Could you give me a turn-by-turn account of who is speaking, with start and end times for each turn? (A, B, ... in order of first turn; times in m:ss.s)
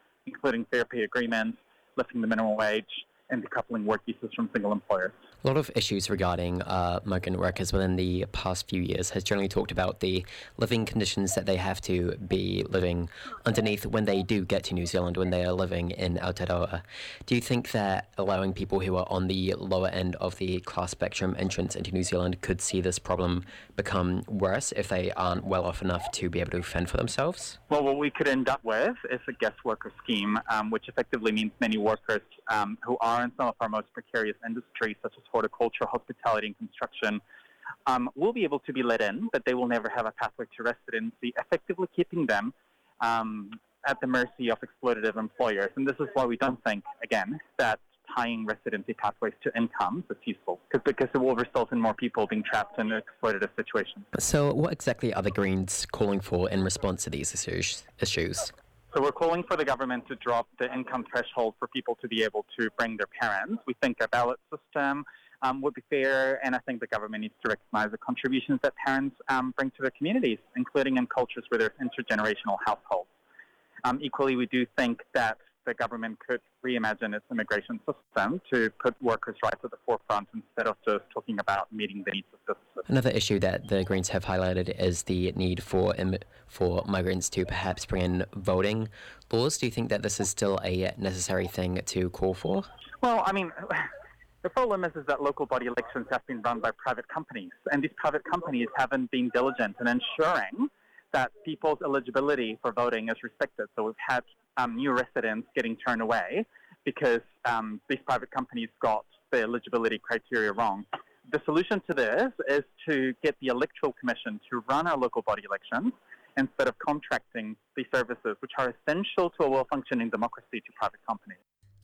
0:00.2-0:05.2 A
0:05.4-0:27.6 B
0:27.7-0:37.2 A
0:37.9-0:54.1 A
0:54.1-0:58.5 B
0:58.9-1:13.1 A
1:13.8-1:22.8 A
1:22.9-1:32.7 B
1:33.0-1:33.9 A
1:34.4-2:01.4 A